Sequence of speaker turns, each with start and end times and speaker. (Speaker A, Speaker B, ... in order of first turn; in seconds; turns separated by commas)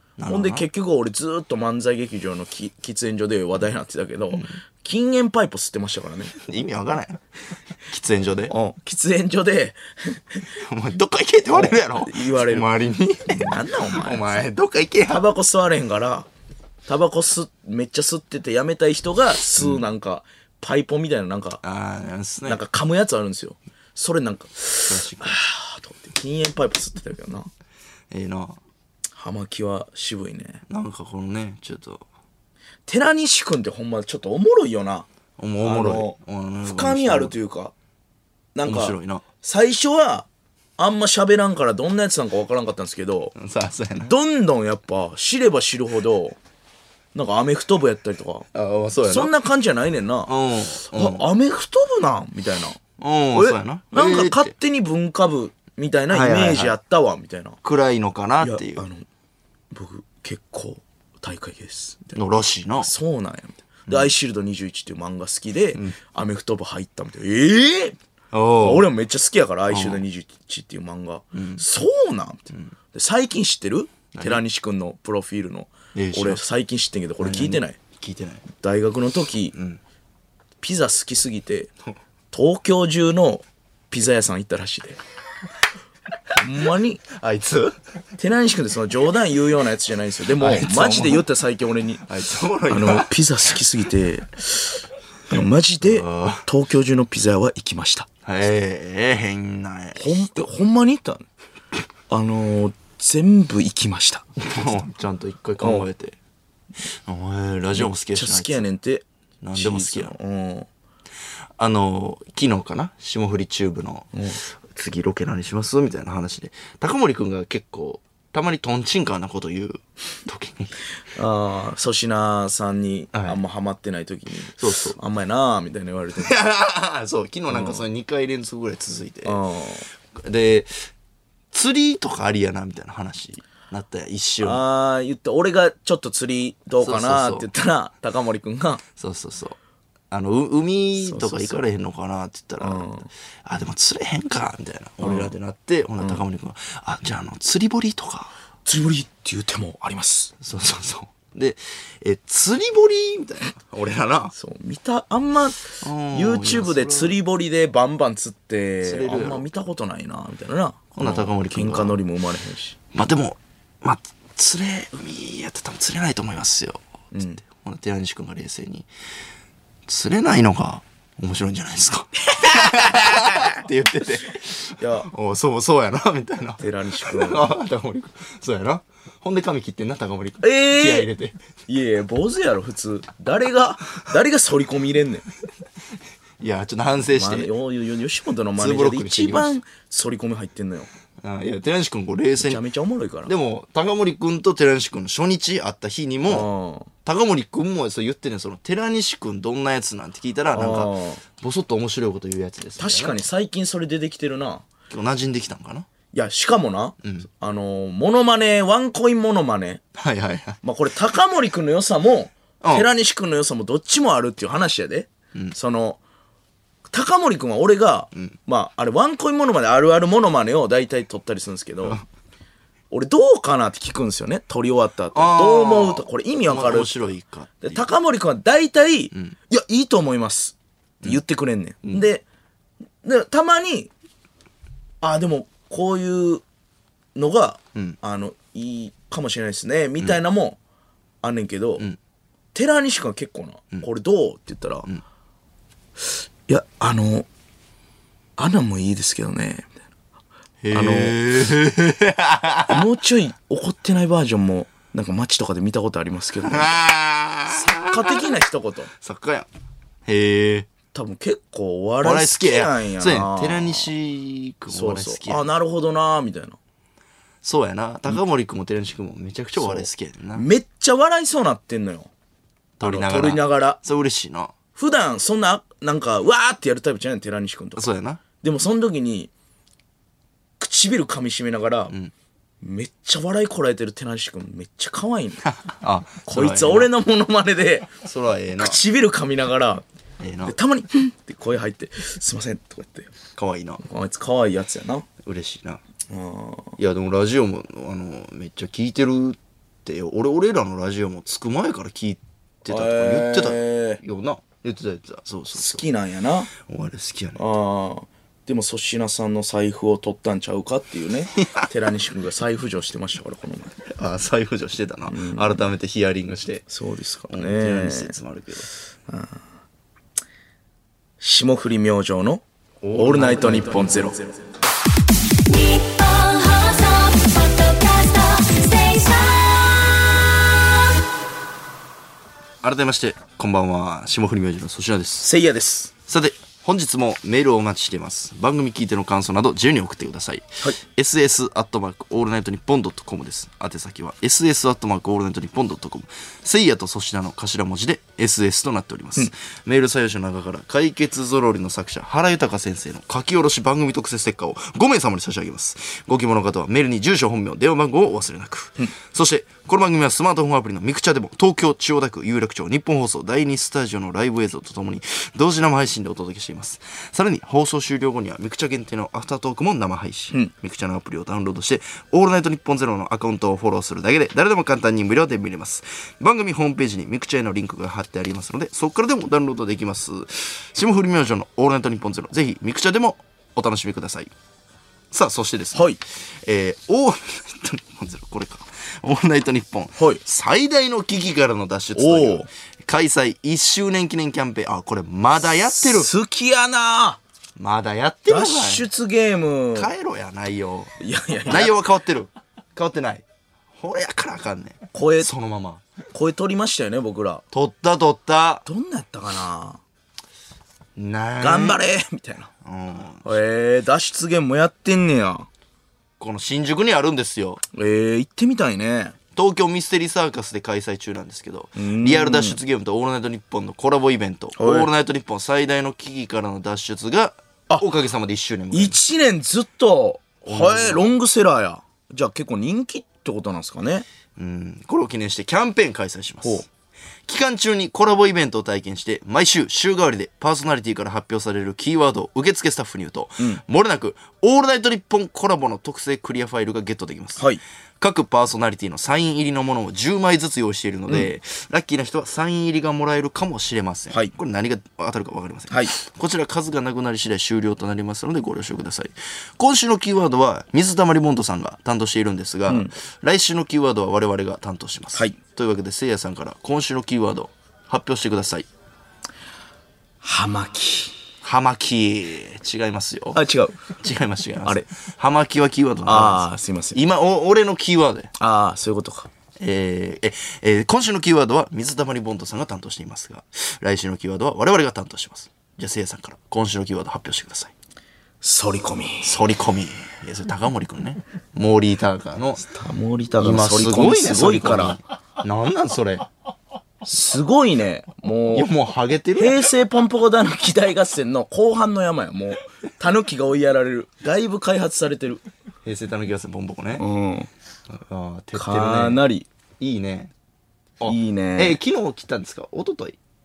Speaker A: 0.2-0.7, Speaker B: 0.3-6.3, Speaker A: 4.3-4.6, Speaker A: 6.3-7.2, Speaker A: 7.8-8.5, Speaker B: 8.5-10.4, Speaker A: 10.6-15.2, Speaker B: 11.5-12.7, Speaker B: 13.3-14.4, Speaker B: 15.1-16.3, Speaker B: 16.9-21.6, Speaker A: 21.6-22.6, Speaker B: 22.4-27.5, Speaker A: 24.9-25.4, Speaker A: 28.1-28.6, Speaker B: 29.1-30.6, Speaker A: 30.7-32.0, Speaker B: 32.9-35.1, Speaker A: 35.4-37.3, Speaker B: 35.6-37.7, Speaker B: 38.5-40.3, Speaker A: 38.6-39.2, Speaker B: 40.8-43.3, Speaker A: 43.3-44.1, Speaker B: 44.0-46.4, Speaker B: 47.1-48.5, Speaker A: 48.5-49.3, Speaker B: 49.0-50.3, Speaker A: 50.3-51.2, Speaker B: 50.8-52.8, Speaker A: 53.0-54.5, Speaker B: 53.3-57.6, Speaker A: 56.1-56.8, Speaker A: 57.6-58.8, Speaker B: 58.4-59.0, Speaker B: 59.7-62.1, Speaker A: 62.1-62.9, Speaker B: 62.8-68.0, Speaker A: 68.3-68.9, Speaker B: 68.6-77.8, Speaker A: 69.7-70.0, Speaker A: 71.3-71.6, Speaker A: 74.1-74.4, Speaker A: 75.9-76.4, Speaker A: 77.2-78.4, Speaker B: 78.5-79.5, Speaker A: 79.5-79.8, Speaker B: 80.6-81.7, Speaker B: 82.3-85.0, Speaker B: 86.4-87.0, Speaker A: 87.1-87.8, Speaker B: 88.2-92.1, Speaker A: 90.3-91.3, Speaker A: 92.1-93.1, Speaker B: 92.7-98.1, Speaker A: 95.8-96.5, Speaker A: 98.2-100.4, Speaker B: 100.0-101.2, Speaker B: 102.1-104.7, Speaker A: 104.4-106.2, Speaker B: 105.6-105.9, Speaker A: 107.0-108.6, Speaker B: 107.7-110.7, Speaker A: 109.4-110.1, Speaker A: 111.6-120.8, Speaker B: 114.1-114.4, Speaker B: 121.1-126.3, Speaker A: 123.1-123.4, Speaker A: 124.6-125.0, Speaker A: 126.2-129.4, Speaker B: 127.5-127.8, Speaker B: 129.2-129.9, Speaker A: 130.1-130.9, Speaker A: 131.5-134.6, Speaker B: 134.4-138.8, Speaker A: 136.8-137.5, Speaker A: 138.9-139.6, Speaker A: 140.1-142.9, Speaker B: 141.0-141.6, Speaker B: 142.6-143.1, Speaker A: 143.4-148.3, Speaker B: 145.0-145.3, Speaker B: 148.6-150.3, Speaker A: 150.4-154.3, Speaker B: 154.3-162.8, Speaker A: 155.8-157.2, Speaker A: 158.8-159.4, Speaker A: 160.9-162.0, Speaker A: 162.9-166.8, Speaker B: 167.1-167.4, Speaker A: 167.4-168.9, Speaker A: 169.9-181.4, Speaker B: 172.3-173.5, Speaker B: 174.8-175.1, Speaker B: 176.6-177.5, Speaker B: 180.4-181.1, Speaker B: 181.7-185.2, Speaker A: 186.4-187.5, Speaker B: 187.1-190.9, Speaker A: 188.6-189.6, Speaker A: 191.2-192.6, Speaker B: 192.4-193.3, Speaker A: 193.2-196.5, Speaker B: 196.2-196.9, Speaker A: 197.0-203.2, Speaker B: 200.5-201.2, Speaker B: 202.8-204.7, Speaker A: 204.9-205.9, Speaker B: 206.1-209.8, Speaker A: 209.9-210.6, Speaker B: 210.6-216.0, Speaker A: 212.6-212.9, Speaker B: 216.9-222.0, Speaker B: 222.9-227.0, Speaker A: 225.1-227.9, Speaker B: 227.6-232.2, Speaker B: 233.0-233.9, Speaker B: 235.0-236.4, Speaker B: 237.1-240.6, Speaker B: 241.2-241.8, Speaker B: 242.5-244.9, Speaker B: 246.0-247.3, Speaker B: 248.4-249.8, Speaker A: 250.6-252.8, Speaker B: 250.7-251.2, Speaker B: 252.7-256.8, Speaker A: 256.4-258.3, Speaker B: 257.5-258.9, Speaker A: 258.9-259.5, Speaker A: 260.1-260.7, Speaker B: 260.9-263.9, Speaker A: 262.0-265.5, Speaker B: 264.7-266.6, Speaker A: 267.4-270.4, Speaker B: 269.6-272.1, Speaker A: 272.8-274.5, Speaker B: 272.8-273.8, Speaker B: 274.7-277.8, Speaker A: 277.8-278.2, Speaker B: 278.4-279.3, Speaker B: 280.6-281.9, Speaker B: 282.6-285.4, Speaker A: 285.4-286.9, Speaker B: 286.3-288.0, Speaker A: 288.0-288.8, Speaker B: 288.6-289.8, Speaker A: 290.2-290.6, Speaker B: 290.4-293.1, Speaker A: 293.4-293.8, Speaker B: 293.8-295.1, Speaker A: 295.2-295.8, Speaker B: 296.1-296.8, Speaker A: 296.8-305.8, Speaker B: 302.7-304.0, Speaker B: 305.5-306.5, Speaker A: 306.6-307.4, Speaker B: 307.4-313.7, Speaker A: 313.8-316.7, Speaker B: 315.1-315.6, Speaker B: 316.7-318.1, Speaker A: 317.3-318.7, Speaker B: 319.1-319.4, Speaker B: 321.2-322.4, Speaker A: 322.8-324.1, Speaker B: 322.9-324.3, Speaker C: 325.4-329.9, Speaker A: 332.6-335.3, Speaker B: 335.2-335.9, Speaker A: 336.1-384.3, Speaker A: 385.1-396.1, Speaker B: 385.7-386.0, Speaker B: 391.9-392.5, Speaker B: 395.6-397.2, Speaker A: 397.6-398.9, Speaker B: 398.3-399.9, Speaker A: 399.7-400.9, Speaker B: 401.0-401.8, Speaker A: 401.4-403.2, Speaker A: 403.8-405.8, Speaker B: 404.9-405.3, Speaker B: 406.1-407.4, Speaker A: 407.5-408.6, Speaker B: 408.6-409.8, Speaker A: 410.9-411.8, Speaker B: 411.4-412.5, Speaker A: 412.6-413.4, Speaker B: 413.2-415.5, Speaker A: 416.2-417.6, Speaker B: 417.7-419.1, Speaker A: 419.3-428.9, Speaker B: 421.8-422.6, Speaker B: 424.6-424.9, Speaker B: 428.7-434.1, Speaker A: 430.4-431.1, Speaker A: 434.4-436.7, Speaker A: 437.3-447.5, Speaker B: 447.4-447.6, Speaker A: 448.0-468.7, Speaker B: 451.1-451.3, Speaker B: 455.7-455.9, Speaker B: 462.7-462.9, Speaker B: 470.2-471.1, Speaker A: 471.4-473.4, Speaker B: 473.3-473.8, Speaker A: 473.9-478.3, Speaker B: 476.0-477.0, Speaker B: 478.4-479.3, Speaker A: 479.6-487.7, Speaker B: 488.4-489.4, Speaker A: 489.2-492.7, Speaker B: 492.6-495.0, Speaker A: 493.4-496.3, Speaker B: 497.1-498.7, Speaker A: 498.5-499.7, Speaker B: 499.4-505.4, Speaker A: 505.8-507.0, Speaker B: 507.0-507.5, Speaker A: 507.9-509.2, Speaker B: 508.5-509.5, Speaker A: 509.8-510.3, Speaker A: 511.0-513.2, Speaker B: 511.0-511.8